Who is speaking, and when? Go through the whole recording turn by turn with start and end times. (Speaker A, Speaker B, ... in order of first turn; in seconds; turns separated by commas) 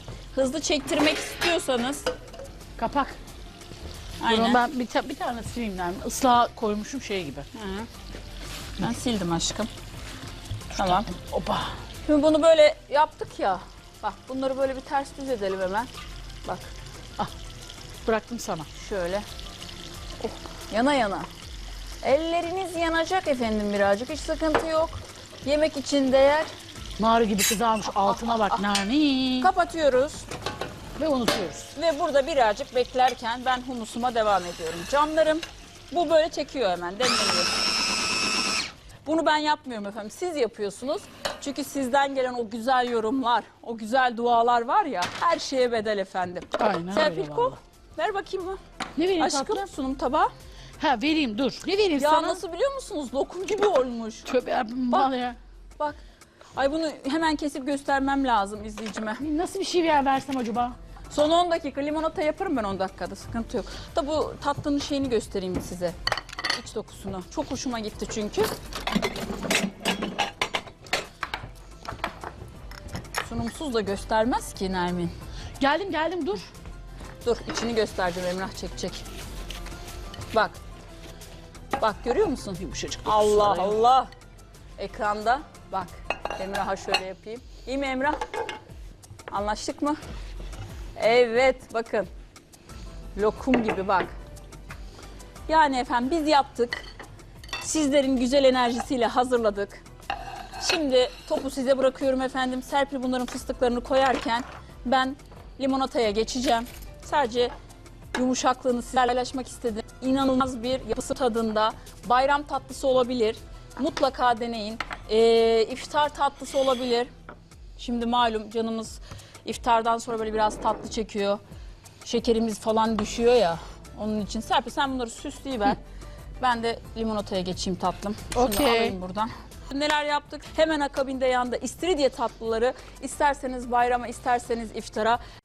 Speaker A: 0.3-2.1, Speaker B: 2.8-3.2, Speaker A: 4.2-4.6, Speaker B: 4.2-7.5, Speaker A: 7.5-7.9, Speaker A: 8.8-9.7, Speaker A: 10.7-11.1, Speaker B: 10.8-11.8, Speaker A: 12.0-15.9, Speaker A: 16.4-16.7, Speaker B: 18.0-18.7, Speaker A: 18.7-19.2, Speaker A: 20.2-21.3, Speaker A: 22.0-26.5, Speaker B: 27.0-29.5, Speaker A: 27.9-28.6, Speaker A: 29.4-30.3, Speaker B: 31.0-31.7, Speaker A: 31.7-37.5, Speaker A: 39.0-48.6, Speaker B: 46.6-47.6, Speaker B: 49.0-49.6, Speaker A: 49.2-50.3, Speaker B: 50.8-52.4, Speaker A: 52.0-54.3, Speaker B: 54.2-55.4, Speaker A: 56.5-59.2, Speaker B: 59.2-60.8, Speaker A: 61.1-66.0, Speaker A: 66.5-68.5, Speaker A: 73.2-75.1, Speaker B: 75.6-76.5, Speaker A: 77.2-79.0, Speaker A: 80.3-80.6, Speaker A: 81.8-84.1, Speaker B: 82.6-83.8, Speaker A: 84.8-88.2, Speaker A: 89.3-90.0, Speaker A: 91.0-92.1, Speaker A: 93.2-94.1, Speaker A: 95.5-96.8, Speaker A: 97.6-99.8, Speaker A: 100.6-107.5, Speaker A: 108.1-117.1, Speaker A: 117.8-121.4, Speaker A: 122.0-125.8, Speaker A: 126.4-135.2, Speaker B: 128.3-129.0